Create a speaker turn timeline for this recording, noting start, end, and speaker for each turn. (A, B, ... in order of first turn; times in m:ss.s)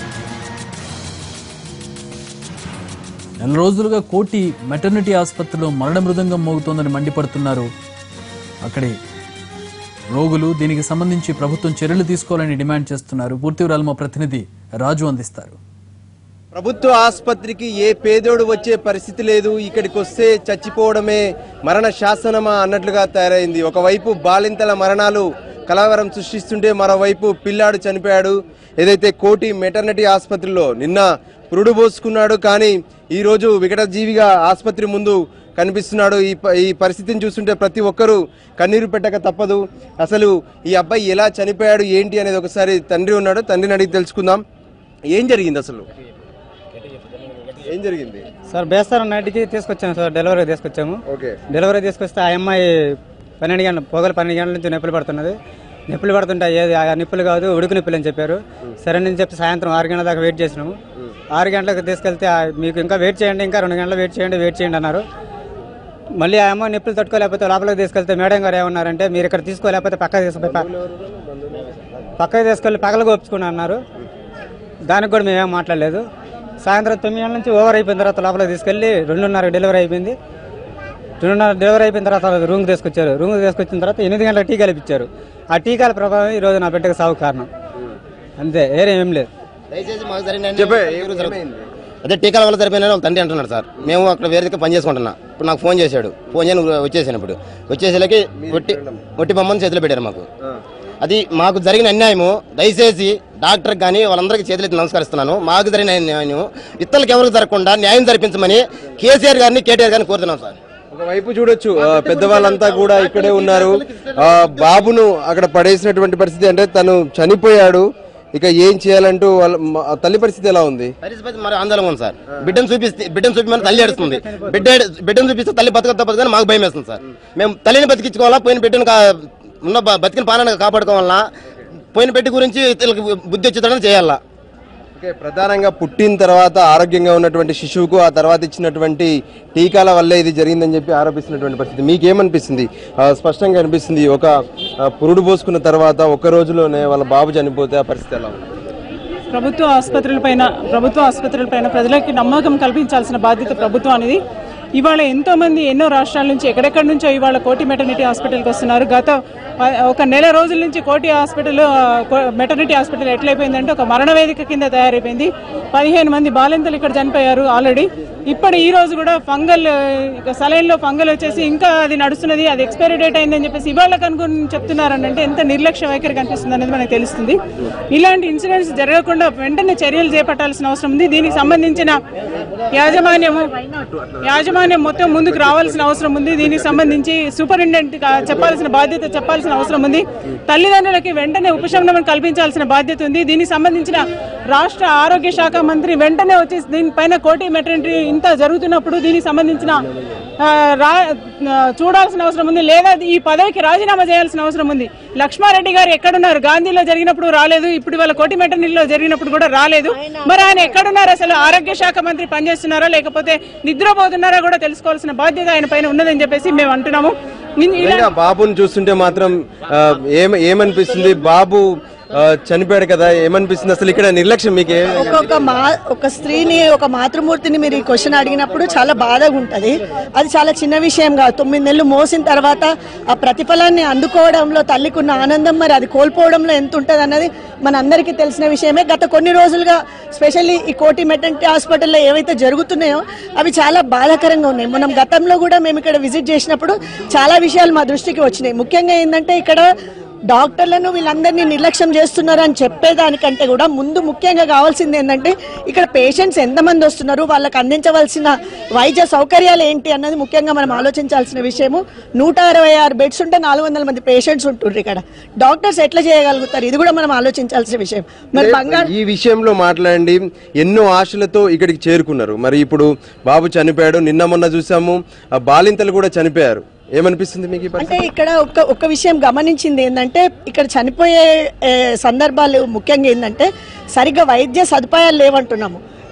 0:03.4-0:07.7 A
0:08.6-0:08.9 A
0:10.1-0:15.6 A
0:16.5-0:44.4 B
0:45.1-0:45.9 B
0:47.5-0:48.2 B
0:48.5-0:51.0 C
0:51.1-0:51.4 B
0:51.5-0:55.4 C
0:55.9-1:00.8 C
1:01.3-1:05.0 C
1:06.2-1:10.7 C
1:10.6-1:11.1 B
1:12.2-1:13.8 C
1:14.9-1:16.0 C
1:16.6-1:20.1 C
1:21.2-1:27.5 C
1:28.4-1:29.3 C
1:29.7-1:31.4 D
1:30.5-1:31.7 B
1:32.0-1:40.3 D
1:38.4-1:39.1 B
1:41.0-1:50.6 D
1:50.9-2:00.9 B
1:51.8-1:54.9 D
2:01.0-2:11.3 D
2:03.6-2:04.7 C
2:11.9-2:14.2 D
2:15.0-2:24.3 B
2:24.9-2:28.4 B
2:29.3-2:34.2 E
2:34.8-2:57.4 E
2:57.9-3:02.0 E
3:02.7-3:03.5 E
3:04.2-3:19.8 E
3:20.4-3:38.1 E
3:37.8-3:45.3 B
3:44.9-4:09.6 F
4:10.3-4:28.9 F
4:28.4-4:38.1 B
4:37.8-4:45.8 F